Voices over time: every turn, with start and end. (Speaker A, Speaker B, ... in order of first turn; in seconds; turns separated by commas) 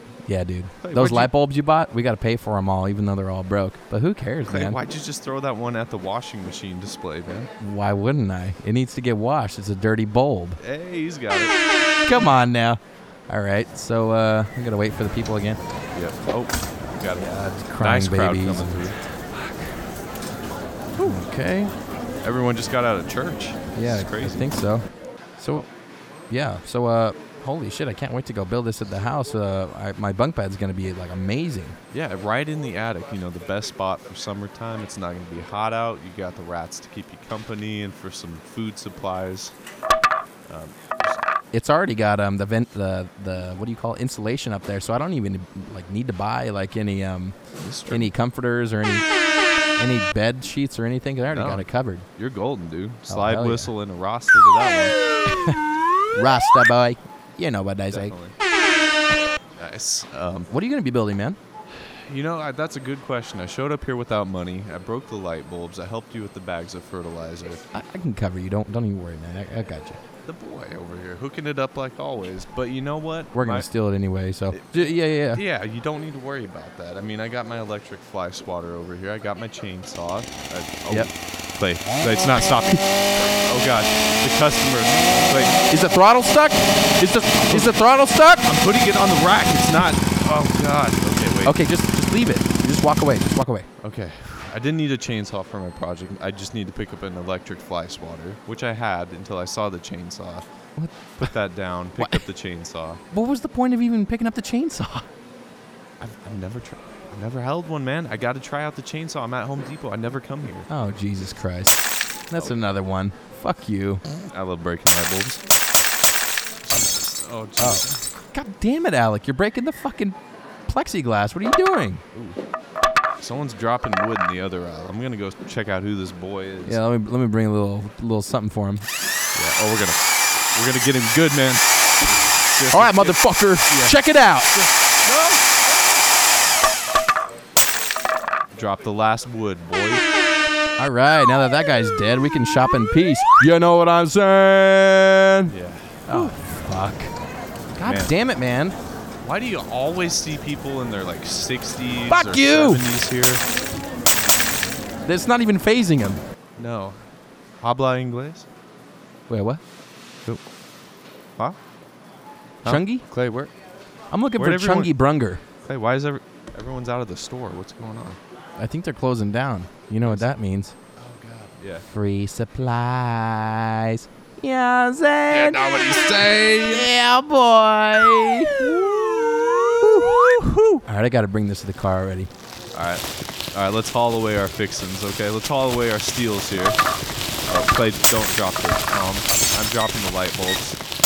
Speaker A: 0.3-4.8, Speaker B: 0.8-1.3, Speaker B: 4.5-7.5, Speaker A: 7.6-10.6, Speaker B: 10.6-11.6, Speaker A: 12.0-15.6, Speaker B: 15.9-19.0, Speaker A: 17.2-19.8, Speaker B: 20.9-21.2, Speaker A: 21.0-21.7, Speaker B: 22.2-24.5, Speaker A: 23.8-24.9, Speaker A: 25.4-25.7, Speaker A: 26.3-31.8, Speaker B: 31.9-39.5, Speaker B: 40.5-41.2, Speaker A: 41.5-47.4, Speaker B: 47.6-48.1, Speaker A: 47.9-49.1, Speaker A: 49.8-52.1, Speaker B: 51.3-55.0, Speaker A: 53.1-53.7, Speaker A: 55.3-55.6, Speaker A: 56.1-58.2, Speaker B: 57.9-58.4, Speaker B: 59.6-60.5, Speaker A: 60.5-61.4, Speaker B: 61.7-67.7, Speaker A: 67.7-70.0, Speaker B: 70.2-73.7, Speaker A: 73.3-75.4, Speaker B: 74.5-85.6, Speaker A: 85.7-88.5, Speaker B: 87.4-87.8, Speaker B: 88.4-91.6, Speaker A: 91.5-93.7, Speaker B: 93.8-100.5, Speaker A: 100.8-101.3, Speaker B: 101.2-103.0, Speaker A: 103.1-105.1, Speaker B: 106.0-110.7, Speaker A: 110.7-114.0, Speaker B: 114.3-115.4, Speaker B: 116.6-118.0, Speaker A: 117.6-120.2, Speaker A: 120.7-122.0, Speaker B: 122.1-122.4, Speaker B: 123.2-126.8, Speaker A: 126.7-128.9, Speaker B: 129.3-135.9, Speaker A: 132.7-134.5, Speaker B: 138.5-140.0, Speaker A: 140.8-145.5, Speaker B: 145.5-146.4, Speaker A: 146.1-147.1, Speaker B: 147.8-148.1, Speaker A: 147.8-148.8, Speaker B: 149.2-153.5, Speaker A: 152.1-152.8, Speaker A: 155.1-156.2, Speaker B: 156.6-157.1, Speaker B: 157.6-158.5, Speaker A: 159.3-159.6, Speaker B: 162.6-163.5, Speaker A: 162.7-163.0, Speaker A: 164.1-165.4, Speaker B: 164.4-164.9, Speaker B: 165.7-168.2, Speaker A: 168.6-170.7, Speaker B: 171.0-171.9, Speaker A: 171.9-175.7, Speaker B: 175.3-176.9, Speaker A: 176.7-178.7, Speaker B: 178.6-179.4, Speaker A: 179.8-182.3, Speaker B: 180.2-180.7, Speaker B: 182.7-186.8, Speaker B: 187.5-190.8